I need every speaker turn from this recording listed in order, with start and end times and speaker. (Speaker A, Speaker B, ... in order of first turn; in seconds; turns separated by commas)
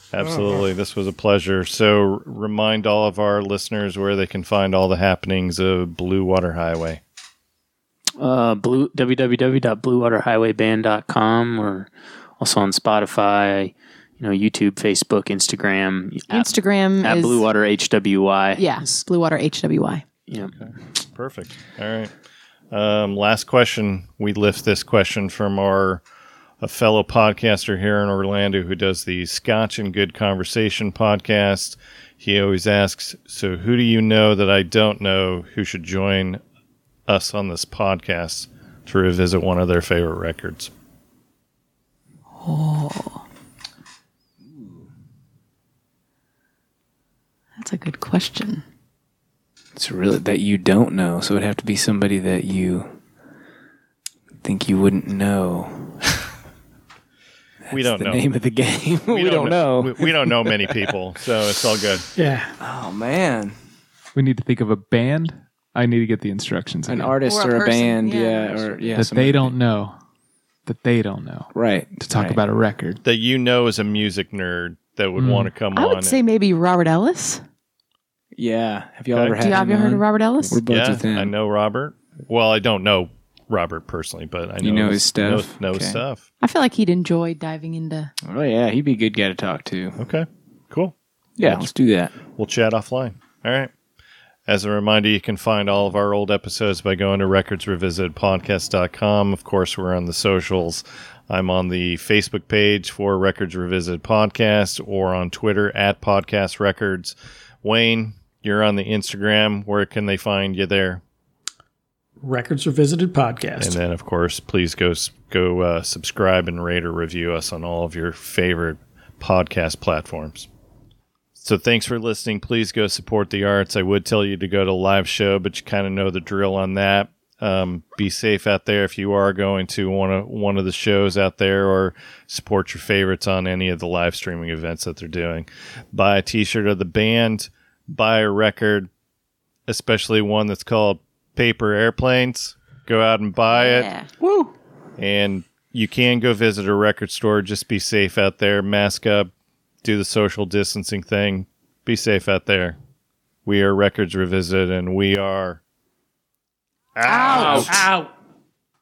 Speaker A: 0.1-7.0, Speaker B: 0.2-0.7, Speaker C: 8.2-18.8, Speaker D: 16.3-17.4, Speaker D: 18.6-20.0, Speaker A: 20.5-22.1, Speaker A: 22.7-26.0, Speaker A: 26.6-36.4, Speaker A: 37.1-40.7, Speaker D: 42.4-43.2, Speaker E: 44.4-44.9, Speaker D: 47.6-48.6, Speaker E: 49.8-53.0, Speaker E: 54.4-56.2, Speaker E: 57.7-60.9, Speaker A: 57.7-58.2, Speaker A: 59.1-62.1, Speaker B: 62.1-62.5, Speaker E: 62.6-63.5, Speaker F: 64.1-67.1, Speaker E: 66.9-69.5, Speaker D: 67.2-68.9, Speaker F: 68.9-70.0, Speaker F: 70.7-73.0, Speaker E: 71.5-72.4, Speaker A: 73.0-76.2, Speaker F: 75.2-75.5, Speaker D: 75.7-77.4, Speaker E: 78.3-81.3, Speaker A: 79.1-79.4, Speaker D: 79.4-80.6, Speaker A: 80.7-86.2, Speaker E: 84.6-86.0, Speaker D: 86.4-88.1, Speaker E: 88.2-90.0, Speaker A: 90.0-91.7, Speaker E: 91.4-92.1, Speaker A: 92.3-93.7, Speaker A: 94.5-111.0, Speaker B: 112.2-113.8, Speaker A: 113.6-120.5, Speaker A: 121.4-138.9, Speaker A: 139.7-143.9, Speaker D: 143.5-144.1, Speaker A: 145.0-149.3, Speaker A: 149.8-152.8, Speaker A: 153.4-155.6, Speaker A: 156.9-157.9, Speaker D: 157.1-157.9, Speaker B: 157.3-158.1